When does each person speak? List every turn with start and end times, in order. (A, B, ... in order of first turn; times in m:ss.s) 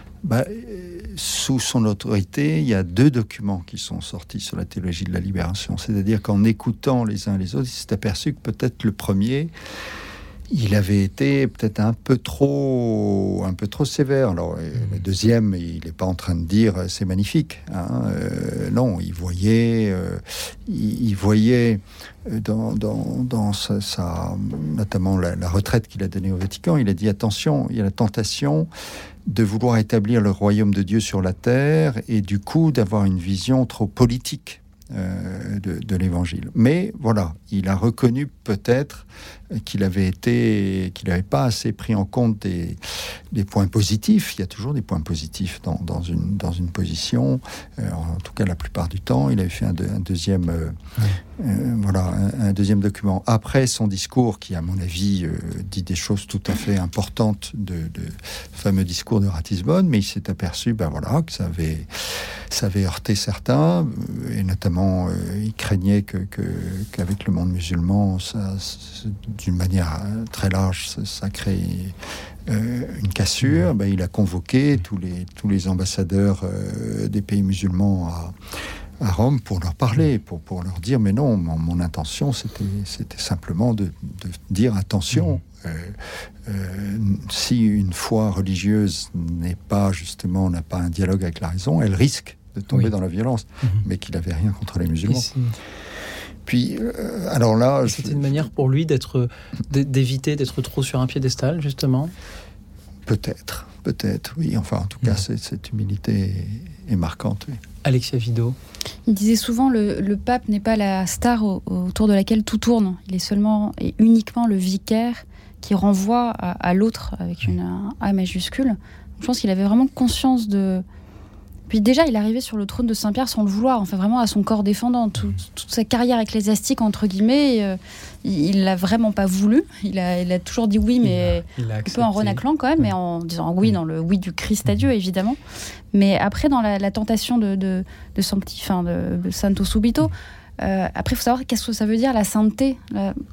0:00.2-0:09.5 A
0:10.5-0:28.7 A
0:29.3-0:50.8 A
0:51.4-1:01.9 A
1:02.5-1:18.4 A
1:19.0-1:35.3 A
1:25.1-1:25.4 B
1:35.1-1:35.6 B
1:36.4-1:38.5 A
1:37.9-1:42.1 B
1:43.1-1:47.6 A
1:47.8-1:48.6 B
1:49.1-2:00.8 C
2:01.7-2:15.4 C
2:11.0-2:12.9 B
2:15.9-2:23.2 C